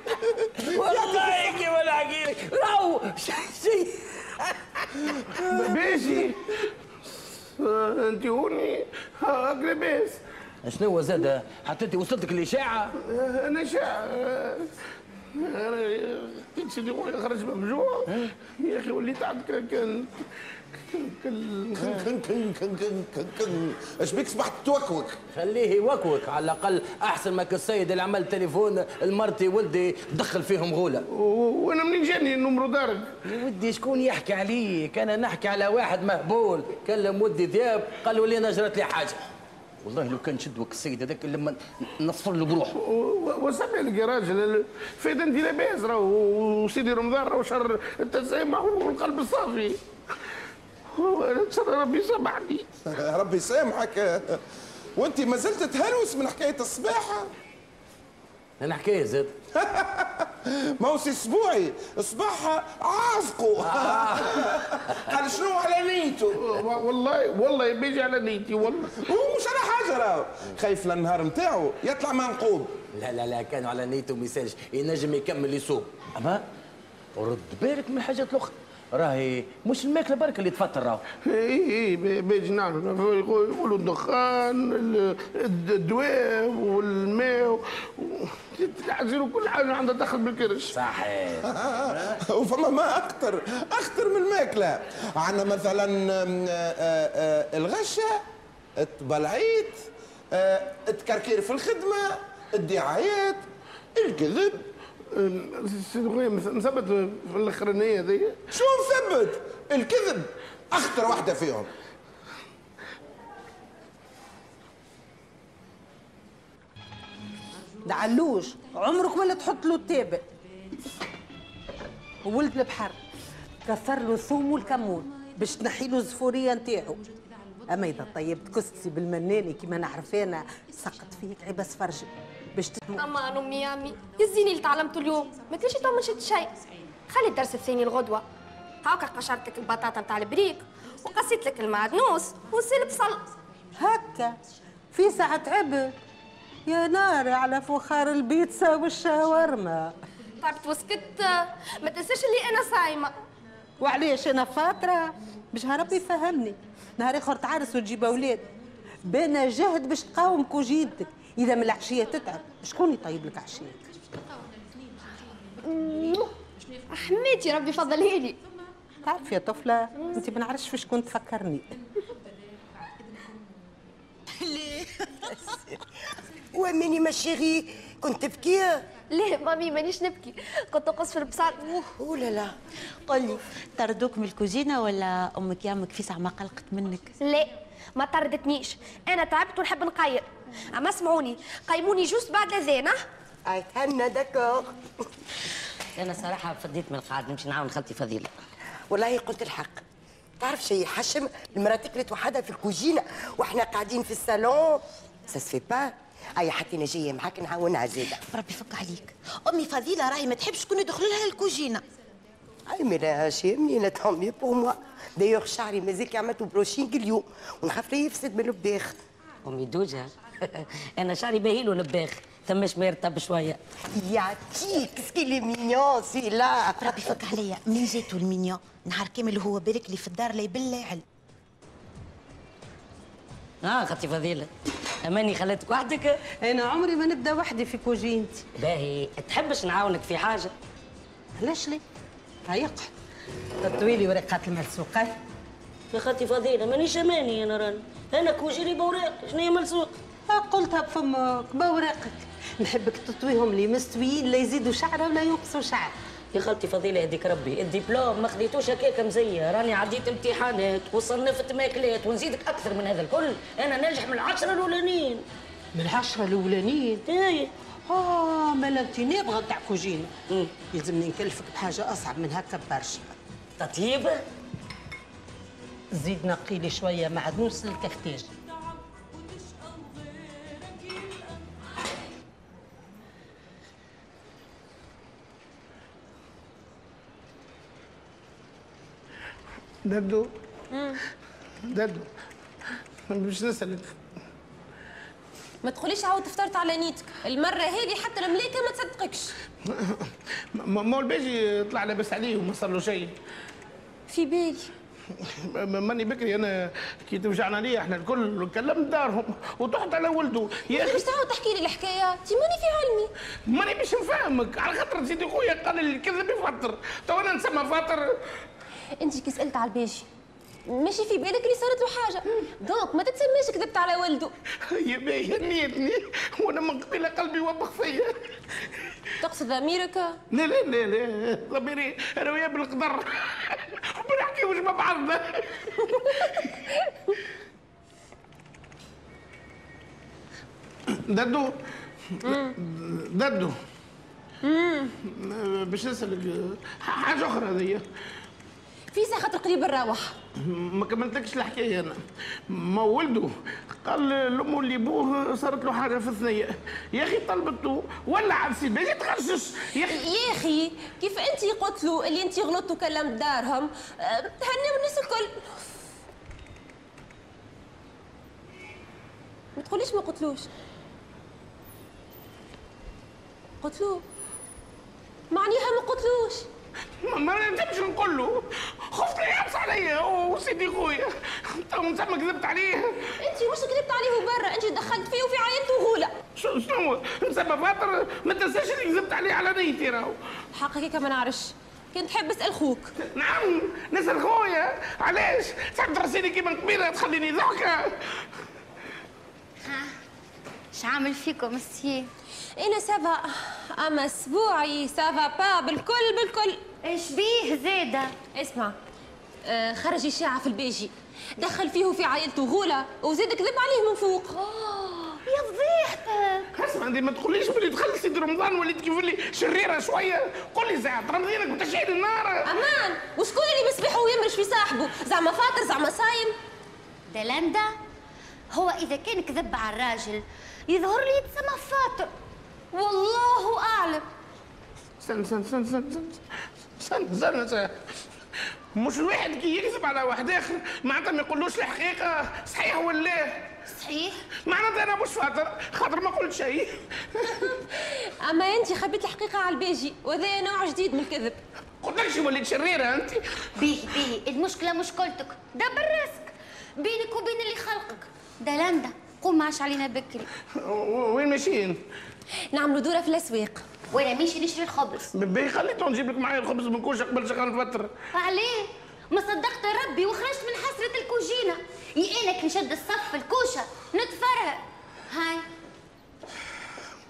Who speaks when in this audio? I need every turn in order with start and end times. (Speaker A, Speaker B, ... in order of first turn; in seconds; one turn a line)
Speaker A: 0.6-5.3
Speaker B: 0.8-1.5
Speaker C: 5.5-6.6
Speaker C: 7.6-10.2
Speaker A: 10.7-12.9
Speaker C: 13.0-14.7
Speaker C: 15.3-20.1
Speaker C: 20.9-22.0
Speaker B: 21.8-25.2
Speaker A: 25.3-31.0
Speaker C: 31.1-33.1
Speaker A: 33.2-39.2
Speaker A: 39.8-42.8
Speaker C: 42.8-49.8
Speaker C: 50.9-52.7
Speaker B: 52.9-54.4
Speaker B: 55.0-57.3
Speaker A: 58.6-59.3
Speaker B: 59.5-66.5
Speaker A: 63.6-65.0
Speaker C: 66.4-69.0
Speaker B: 69.0-72.8
Speaker A: 72.9-76.4
Speaker A: 77.2-81.0
Speaker C: 81.2-90.7
Speaker A: 90.7-92.2
Speaker B: 91.4-98.2
Speaker B: 98.8-103.4
Speaker B: 104.0-104.7
Speaker C: 105.1-108.4
Speaker B: 108.5-111.7
Speaker D: 117.8-120.2
Speaker D: 122.2-123.0
Speaker D: 123.7-127.0
Speaker D: 127.7-133.1
Speaker E: 132.9-136.5
Speaker E: 137.1-138.2
Speaker E: 138.8-143.2
Speaker D: 143.8-144.3
Speaker D: 144.9-145.9
Speaker D: 146.7-150.0
Speaker E: 150.4-153.2
Speaker D: 153.8-158.4
Speaker D: 159.1-163.8
Speaker E: 165.6-166.3
Speaker E: 166.9-168.4
Speaker D: 169.0-171.7
Speaker F: 174.4-175.1
Speaker G: 176.5-178.9
Speaker E: 179.1-181.7
Speaker G: 181.7-182.5
Speaker F: 183.0-187.1
Speaker E: 187.2-193.0
Speaker G: 193.5-194.8
Speaker H: 196.0-198.3
Speaker G: 198.9-199.8
Speaker G: 200.4-208.2
Speaker F: 208.3-211.8
Speaker G: 212.7-218.9
Speaker H: 219.4-223.6
Speaker G: 223.9-227.0
Speaker F: 226.8-231.0
Speaker H: 233.6-234.5
Speaker H: 235.0-236.2
Speaker D: 236.4-238.5
Speaker H: 238.6-240.5
Speaker D: 241.4-241.8
Speaker D: 242.5-242.9
Speaker D: 243.6-245.2
Speaker H: 245.9-250.0
Speaker D: 250.3-255.9
Speaker H: 256.3-265.2
Speaker D: 265.8-267.0
Speaker H: 267.1-267.5
Speaker D: 267.9-270.1
Speaker D: 270.7-273.1
Speaker H: 273.6-274.2
Speaker D: 275.9-278.3
Speaker C: 289.9-290.3
Speaker I: 290.7-291.0
Speaker C: 291.6-292.1
Speaker C: 293.1-294.0
Speaker I: 295.6-299.3
Speaker C: 299.7-303.1
Speaker I: 304.1-304.7
Speaker C: 305.2-311.0
Speaker I: 310.7-313.1
Speaker C: 313.5-318.1
Speaker I: 319.0-320.1
Speaker I: 320.7-324.3
Speaker C: 324.7-328.2
Speaker I: 329.2-330.2
Speaker C: 330.3-335.7
Speaker C: 341.1-341.6
Speaker I: 342.2-342.6
Speaker C: 342.3-343.6
Speaker I: 344.4-344.9
Speaker C: 345.1-347.8
Speaker I: 348.9-350.1
Speaker C: 350.4-353.3
Speaker C: 353.8-360.0
Speaker I: 359.9-365.8
Speaker I: 369.6-370.5
Speaker I: 373.6-374.0
Speaker I: 375.3-376.5
Speaker C: 377.0-383.1
Speaker I: 383.2-386.1
Speaker C: 386.4-390.2
Speaker I: 390.5-392.9
Speaker C: 393.1-398.0
Speaker J: 399.6-399.9
Speaker J: 400.7-402.1
Speaker I: 402.6-406.6
Speaker J: 406.8-408.2
Speaker I: 408.4-408.8
Speaker I: 409.4-414.4
Speaker J: 414.5-416.5
Speaker C: 416.6-422.5
Speaker I: 422.4-426.4
Speaker J: 427.1-427.7
Speaker J: 428.5-432.1
Speaker J: 432.7-434.1
Speaker C: 435.0-436.2
Speaker C: 436.8-437.7
Speaker C: 438.8-443.4
Speaker J: 443.7-444.2
Speaker C: 444.5-447.4
Speaker I: 447.4-451.4
Speaker C: 451.8-453.2
Speaker J: 453.6-460.3
Speaker C: 460.6-461.8
Speaker I: 462.5-463.6
Speaker J: 463.9-465.1
Speaker C: 465.1-467.9
Speaker J: 468.1-475.5